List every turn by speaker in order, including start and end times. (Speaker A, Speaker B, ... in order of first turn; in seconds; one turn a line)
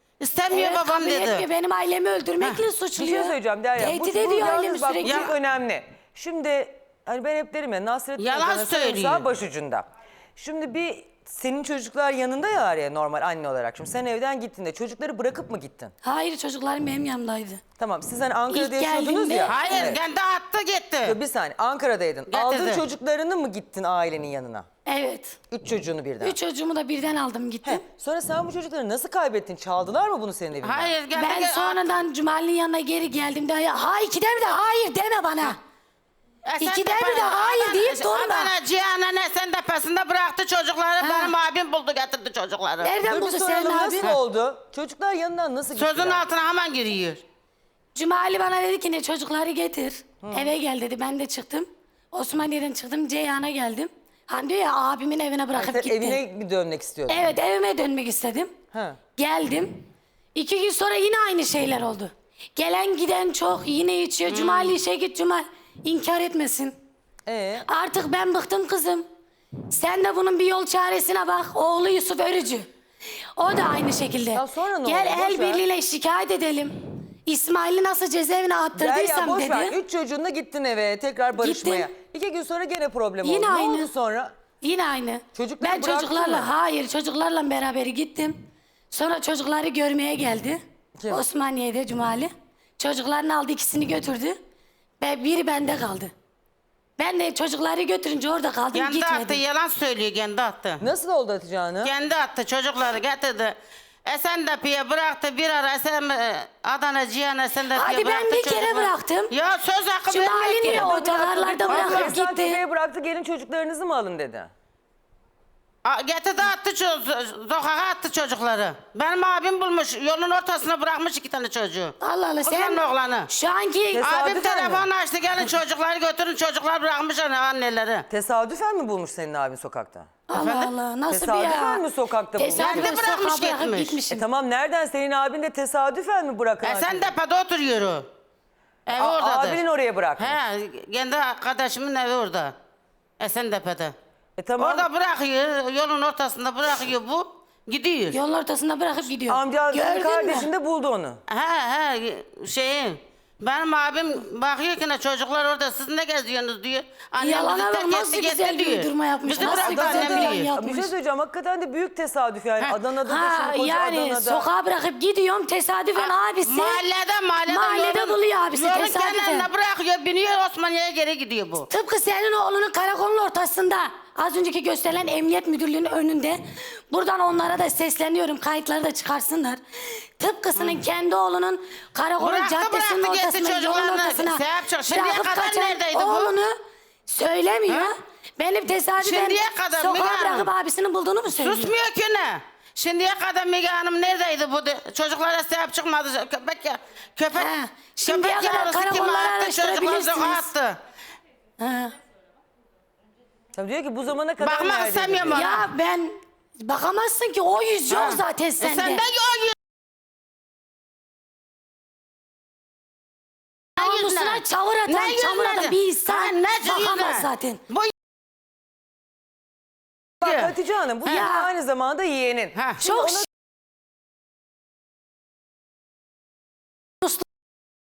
Speaker A: 0.2-1.5
Speaker B: 0.5-5.3
Speaker C: 3.0-15.9
Speaker A: 5.0-5.3
Speaker A: 8.2-9.2
Speaker B: 16.0-17.6
Speaker C: 17.8-20.0
Speaker B: 18.5-19.6
Speaker A: 19.5-21.2
Speaker C: 21.0-24.7
Speaker A: 22.3-22.8
Speaker B: 24.9-25.4
Speaker C: 25.5-26.4
Speaker B: 26.2-27.8
Speaker C: 27.6-30.9
Speaker A: 30.6-32.0
Speaker B: 31.1-35.5
Speaker A: 36.5-43.0
Speaker B: 36.6-38.5
Speaker B: 41.0-41.3
Speaker B: 42.8-44.0
Speaker C: 43.0-46.2
Speaker A: 45.7-47.2
Speaker B: 48.0-56.2
Speaker C: 50.2-50.5
Speaker C: 55.5-57.3
Speaker B: 57.1-58.5
Speaker C: 58.7-59.0
Speaker B: 59.2-59.8
Speaker B: 60.4-66.8
Speaker A: 64.3-64.8
Speaker C: 67.3-67.7
Speaker B: 67.7-69.0
Speaker B: 69.7-72.7
Speaker B: 73.4-76.7
Speaker C: 74.3-75.6
Speaker B: 77.3-79.7
Speaker C: 78.7-84.3
Speaker B: 81.4-81.9
Speaker B: 83.2-83.9
Speaker B: 84.6-88.3
Speaker C: 85.3-86.5
Speaker B: 88.9-90.6
Speaker C: 91.0-91.2
Speaker B: 91.1-94.4
Speaker B: 95.0-96.1
Speaker B: 97.0-99.4
Speaker A: 98.7-100.8
Speaker C: 100.8-101.9
Speaker A: 101.8-110.9
Speaker B: 107.8-109.2
Speaker B: 110.1-112.6
Speaker C: 110.7-114.5
Speaker A: 111.7-112.1
Speaker A: 115.8-123.3
Speaker B: 122.0-124.0
Speaker C: 123.9-124.9
Speaker A: 124.0-128.1
Speaker C: 128.1-130.2
Speaker B: 130.3-131.8
Speaker A: 130.3-130.7
Speaker C: 131.1-133.0
Speaker B: 132.4-134.2
Speaker A: 132.5-134.0
Speaker C: 134.1-137.1
Speaker A: 136.6-138.1
Speaker A: 138.9-139.6
Speaker C: 139.0-140.4
Speaker A: 140.2-142.6
Speaker A: 143.2-144.0
Speaker C: 144.4-144.9
Speaker A: 144.6-148.2
Speaker B: 148.2-150.4
Speaker C: 149.3-151.2
Speaker A: 151.3-160.5
Speaker B: 157.2-160.9
Speaker C: 159.4-164.5
Speaker B: 163.0-166.8
Speaker A: 165.9-171.7
Speaker B: 167.5-169.4
Speaker B: 171.7-176.4
Speaker B: 176.9-179.6
Speaker B: 180.2-186.4
Speaker A: 180.6-180.8
Speaker A: 182.2-186.3
Speaker B: 187.1-191.7
Speaker A: 189.0-190.5
Speaker A: 191.3-200.8
Speaker B: 197.4-200.4
Speaker B: 201.6-201.9
Speaker C: 203.6-205.4
Speaker A: 204.4-205.7
Speaker B: 205.3-206.1
Speaker B: 206.6-209.0
Speaker A: 207.9-209.6
Speaker B: 213.8-217.6
Speaker A: 213.8-217.9
Speaker C: 220.2-223.3
Speaker A: 220.2-220.5
Speaker B: 221.1-221.5
Speaker A: 222.6-222.8
Speaker B: 222.8-223.2